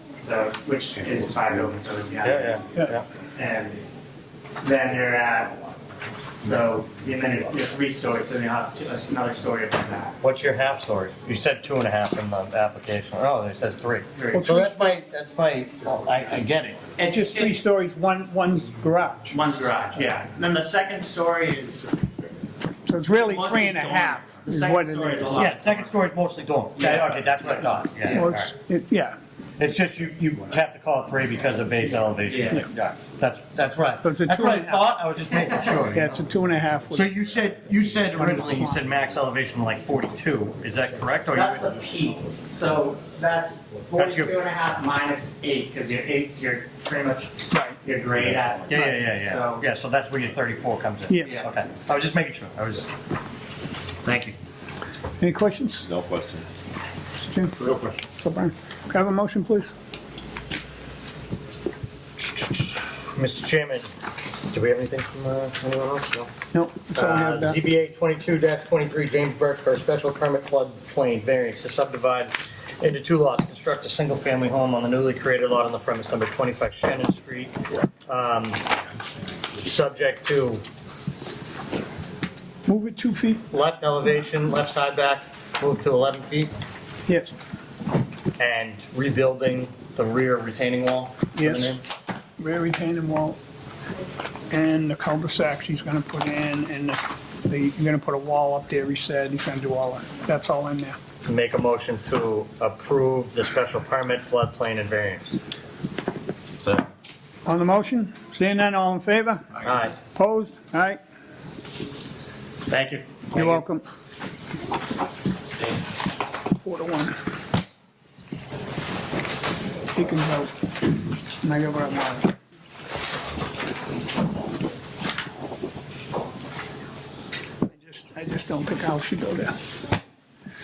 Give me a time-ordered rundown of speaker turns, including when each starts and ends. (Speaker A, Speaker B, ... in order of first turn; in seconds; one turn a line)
Speaker A: 0.2-2.5
Speaker B: 0.8-3.9
Speaker C: 2.2-3.0
Speaker A: 3.4-3.8
Speaker A: 4.6-5.6
Speaker B: 4.7-5.8
Speaker B: 6.4-8.2
Speaker A: 6.4-10.2
Speaker B: 8.9-9.4
Speaker C: 10.2-16.8
Speaker A: 14.1-14.5
Speaker D: 14.3-15.0
Speaker B: 15.9-17.2
Speaker A: 16.9-17.7
Speaker D: 17.1-19.3
Speaker A: 19.3-21.9
Speaker B: 19.3-20.4
Speaker D: 22.9-25.6
Speaker A: 23.0-25.9
Speaker C: 25.3-28.5
Speaker A: 26.8-28.2
Speaker D: 28.1-29.2
Speaker C: 29.6-36.1
Speaker B: 31.2-32.5
Speaker A: 32.3-32.6
Speaker D: 34.0-34.9
Speaker B: 35.7-44.7
Speaker D: 35.8-37.1
Speaker C: 36.9-41.7
Speaker D: 38.1-38.8
Speaker A: 41.3-49.6
Speaker C: 43.9-44.4
Speaker B: 48.0-48.8
Speaker C: 48.7-52.9
Speaker D: 51.1-51.4
Speaker C: 54.0-54.3
Speaker D: 55.2-55.9
Speaker B: 55.9-56.4
Speaker D: 57.3-59.7
Speaker B: 57.7-57.9
Speaker C: 63.1-63.9
Speaker C: 64.5-66.3
Speaker D: 66.5-67.6
Speaker C: 66.9-77.5
Speaker C: 78.1-78.6
Speaker C: 79.6-80.6
Speaker D: 82.7-83.5
Speaker C: 83.5-86.5
Speaker D: 87.1-87.3
Speaker C: 88.4-91.8
Speaker D: 91.4-91.8
Speaker D: 92.4-93.4
Speaker D: 94.5-101.0
Speaker C: 101.2-105.3
Speaker D: 107.5-111.0
Speaker C: 109.6-110.0
Speaker C: 112.7-113.6
Speaker D: 113.3-113.8
Speaker D: 116.6-117.1
Speaker D: 119.9-120.5
Speaker D: 121.4-122.3
Speaker D: 127.7-129.6